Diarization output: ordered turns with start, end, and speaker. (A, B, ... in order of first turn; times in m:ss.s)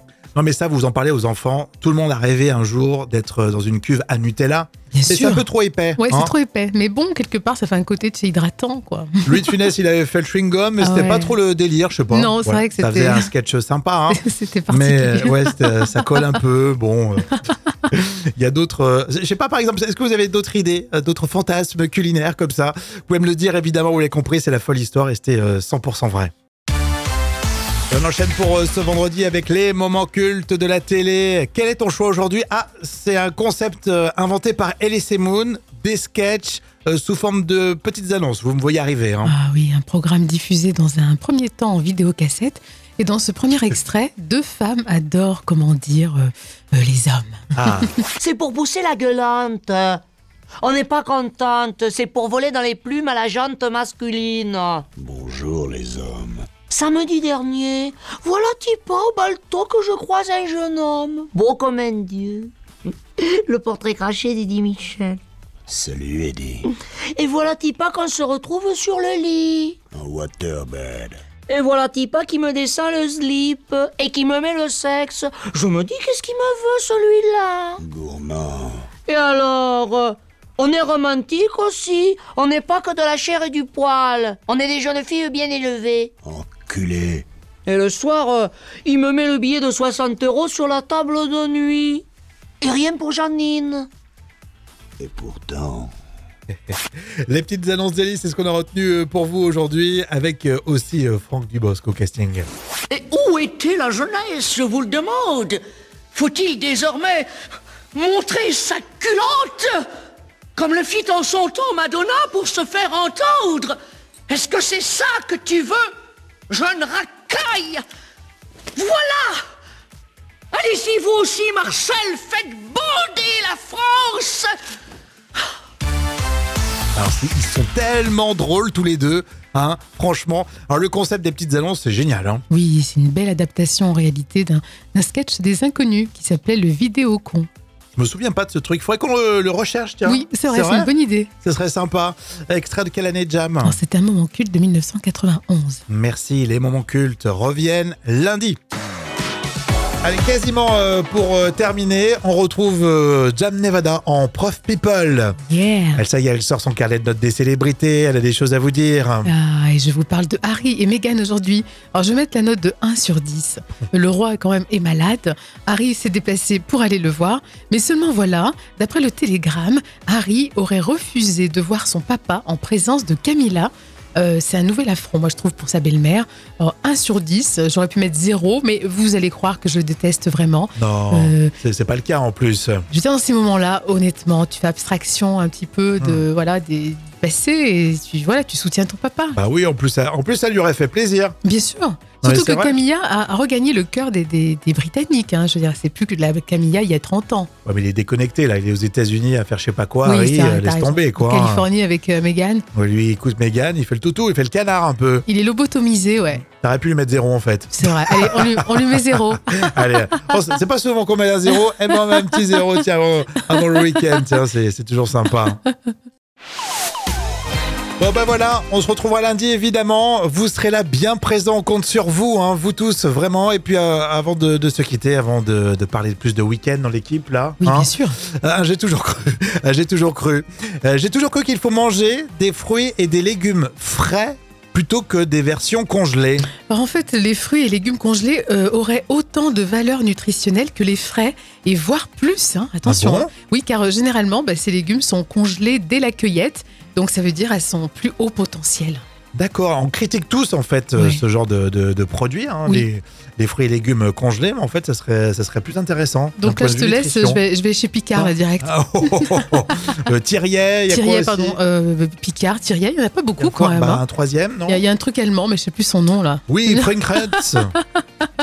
0:00.4-0:06.3 A
0:04.9-0:05.4 B
0:06.0-0:09.5 B
0:09.2-0:17.3 A
0:10.8-0:11.4 B
0:12.1-0:13.3 B
0:14.1-0:16.4 B
0:17.9-0:26.3 A
0:27.9-0:39.3 A
0:39.2-0:47.8 B
0:47.6-0:47.9 A
0:48.2-0:50.0 C
0:50.6-0:54.8 C
0:55.0-0:56.5 D
0:56.7-1:02.5 C
1:03.2-1:05.2 C
1:05.7-1:06.6 D
1:07.1-1:09.8 C
1:09.9-1:11.2 D
1:11.5-1:17.8 C
1:17.8-1:18.9 D
1:19.1-1:26.1 C
1:26.2-1:27.3 D
1:27.6-1:32.0 C
1:32.6-1:33.9 C
1:35.0-1:35.9 D
1:36.5-1:42.5 A
1:42.9-1:45.6 C
1:46.1-1:47.2 E
1:46.3-1:46.8 C
1:47.9-1:49.6 C
1:48.3-1:48.8 E
1:50.6-1:53.7 C
1:50.6-1:52.1 E
1:54.3-1:55.6 C
1:54.5-1:55.7 E
1:56.6-1:57.8 E
1:56.6-1:57.6 C
1:58.8-1:59.4 C
2:00.5-2:04.4 C
2:01.0-2:01.3 E
2:03.5-2:04.2 E
2:06.9-2:12.4 A
2:12.5-2:17.5 B
2:18.0-2:20.9 A
2:20.0-2:21.3 B
2:21.4-2:23.8 A
2:23.6-2:25.8 B
2:25.9-2:28.6 A
2:30.0-2:35.4 A
2:35.5-2:36.0 B
2:35.9-2:39.3 A
2:39.2-3:01.5 B
3:00.8-3:02.8 A
3:02.9-3:09.4 B
3:06.0-3:06.2 A
3:09.4-3:11.4 A
3:11.4-3:17.5 B
3:12.2-3:12.8 A
3:17.6-3:21.7 A
3:20.0-3:22.6 B
3:22.7-3:25.2 A
3:25.3-3:26.4 B
3:26.4-3:35.6 A
3:27.8-3:29.6 B
3:30.1-3:30.4 B
3:32.1-3:32.5 B
3:38.0-3:56.5 A
3:47.6-3:48.2 B
3:56.7-4:09.0 B
4:02.8-4:03.3 A
4:09.3-4:17.4 A
4:11.0-4:11.2 B
4:16.4-4:19.5 B
4:18.1-4:21.6 A
4:20.9-4:24.0 B
4:23.4-4:24.8 A
4:24.7-4:27.8 B
4:26.5-4:27.7 A